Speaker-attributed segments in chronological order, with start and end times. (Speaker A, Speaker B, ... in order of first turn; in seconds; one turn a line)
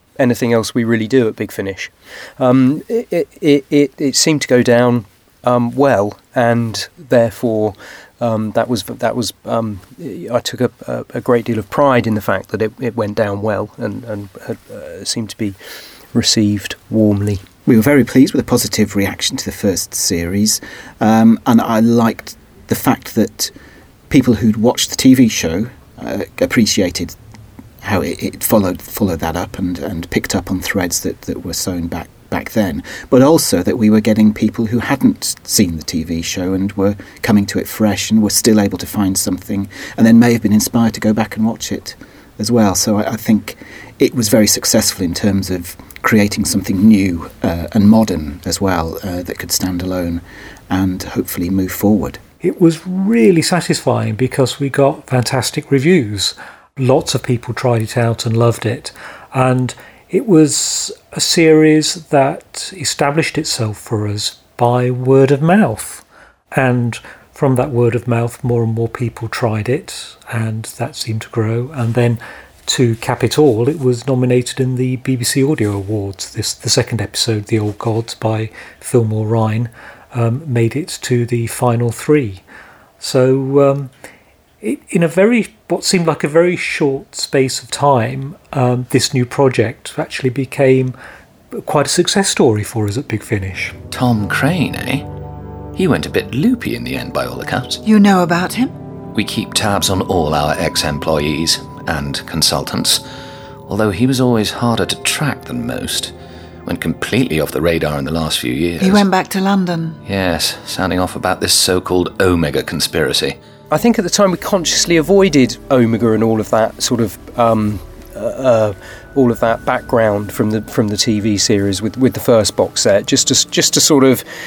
Speaker A: 0.2-15.6
Speaker A: 16.1-17.5
Speaker B: 17.6-23.5
Speaker B: 24.1-27.1
Speaker B: 27.8-52.2
Speaker C: 52.4-82.4
Speaker C: 83.0-83.9
Speaker C: 84.6-91.0
Speaker C: 91.5-93.8
Speaker D: 93.9-95.1
Speaker D: 95.8-97.8
Speaker E: 97.8-98.8
Speaker D: 99.2-103.0
Speaker D: 103.7-106.1
Speaker D: 106.7-109.1
Speaker E: 108.8-110.0
Speaker D: 110.0-113.4
Speaker A: 113.7-124.2